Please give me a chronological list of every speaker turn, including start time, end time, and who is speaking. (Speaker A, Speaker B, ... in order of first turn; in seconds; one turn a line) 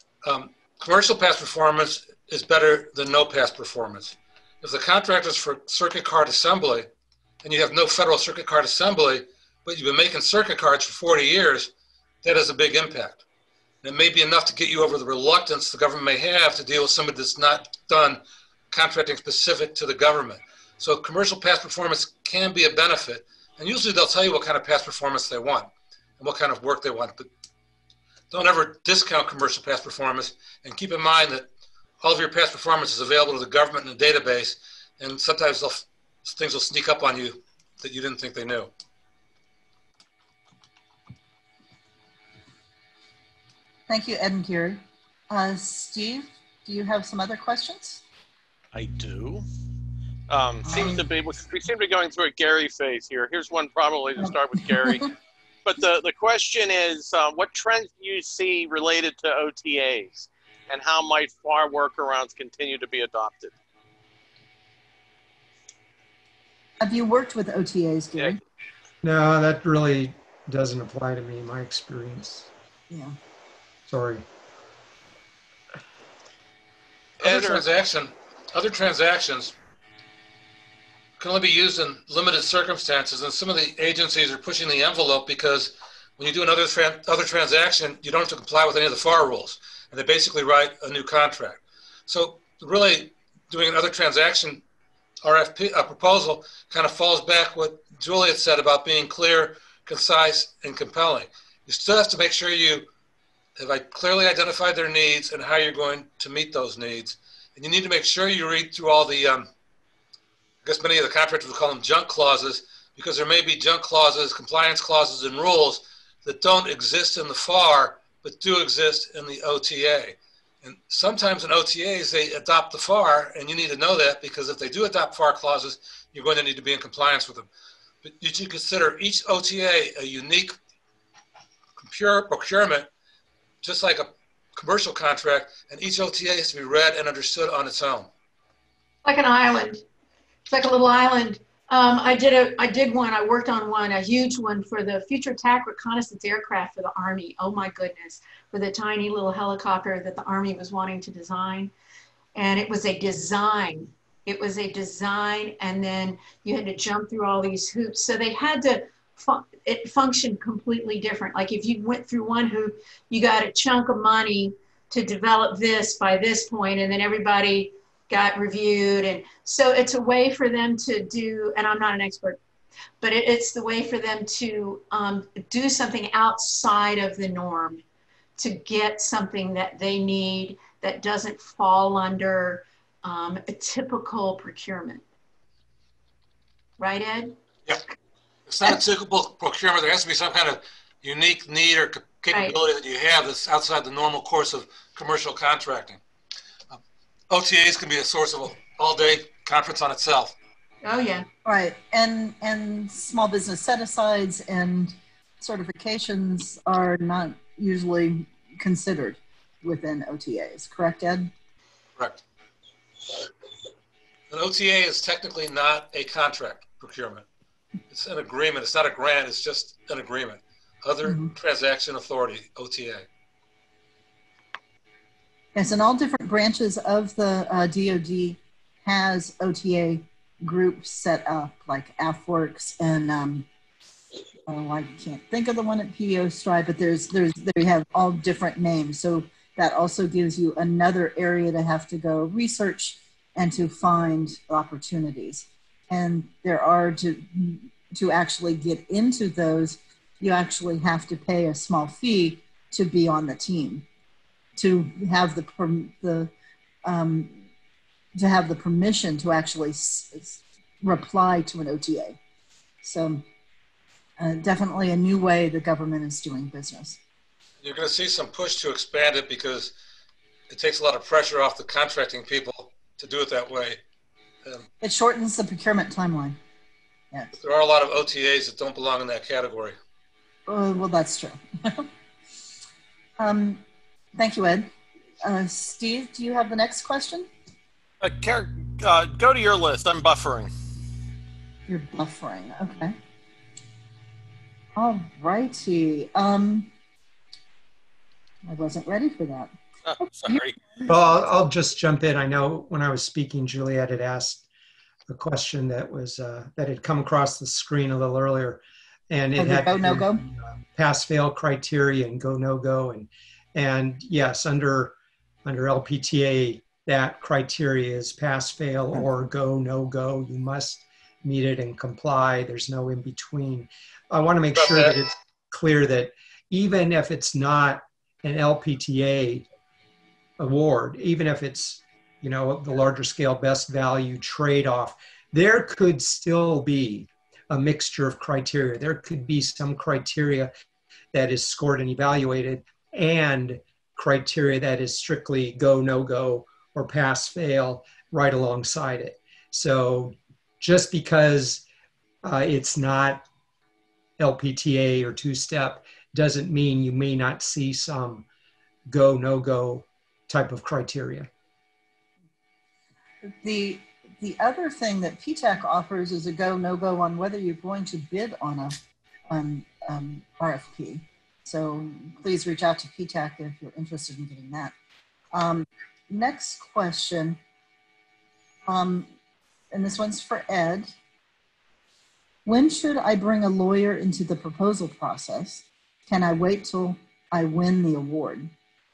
Speaker A: 0.2-6.9
Speaker A: 7.4-11.7
Speaker A: 12.2-13.2
Speaker A: 13.8-27.3
Speaker A: 28.3-31.5
Speaker A: 32.0-38.7
Speaker B: 43.9-48.0
Speaker C: 48.7-49.5
Speaker C: 50.3-55.1
Speaker B: 50.6-51.0
Speaker C: 55.6-63.5
Speaker B: 66.8-68.4
Speaker D: 69.0-72.5
Speaker B: 72.9-73.1
Speaker D: 73.9-74.2
Speaker A: 77.2-79.5
Speaker C: 77.2-77.6
Speaker A: 81.2-94.6
Speaker A: 95.2-102.9
Speaker A: 103.6-109.5
Speaker A: 110.6-127.5
Speaker A: 128.0-130.5
Speaker A: 131.8-132.9
Speaker A: 133.6-138.1
Speaker E: 139.0-139.8
Speaker E: 140.5-151.7
Speaker E: 152.3-172.4
Speaker E: 173.0-177.8
Speaker E: 178.4-185.0
Speaker E: 186.8-187.3
Speaker A: 188.4-196.0
Speaker A: 197.3-200.3
Speaker E: 200.8-201.3
Speaker B: 201.4-211.3
Speaker A: 212.0-212.2
Speaker A: 214.3-217.2
Speaker A: 217.9-223.1
Speaker B: 221.1-221.3
Speaker B: 225.6-233.5
Speaker B: 234.5-253.8
Speaker B: 254.6-256.3
Speaker B: 256.8-257.4
Speaker B: 258.1-262.2
Speaker B: 262.8-263.2
Speaker B: 264.2-267.0
Speaker A: 267.6-269.7
Speaker A: 270.5-273.8
Speaker B: 274.8-276.4
Speaker A: 277.4-279.8
Speaker B: 280.5-281.9
Speaker B: 283.2-283.6
Speaker B: 284.1-284.7
Speaker B: 285.2-287.3
Speaker C: 288.0-290.5
Speaker B: 291.7-292.9
Speaker B: 294.8-296.7
Speaker B: 298.4-300.9
Speaker C: 299.9-300.6
Speaker D: 300.9-304.4
Speaker D: 305.1-329.4
Speaker B: 309.4-310.2
Speaker A: 324.6-324.9
Speaker D: 330.4-340.5
Speaker D: 341.1-351.6
Speaker D: 352.2-353.2
Speaker D: 354.2-358.2
Speaker D: 358.9-361.3
Speaker B: 363.2-368.8
Speaker B: 369.3-374.7
Speaker B: 375.3-377.4
Speaker B: 378.7-379.1
Speaker B: 379.7-380.9
Speaker B: 382.4-388.5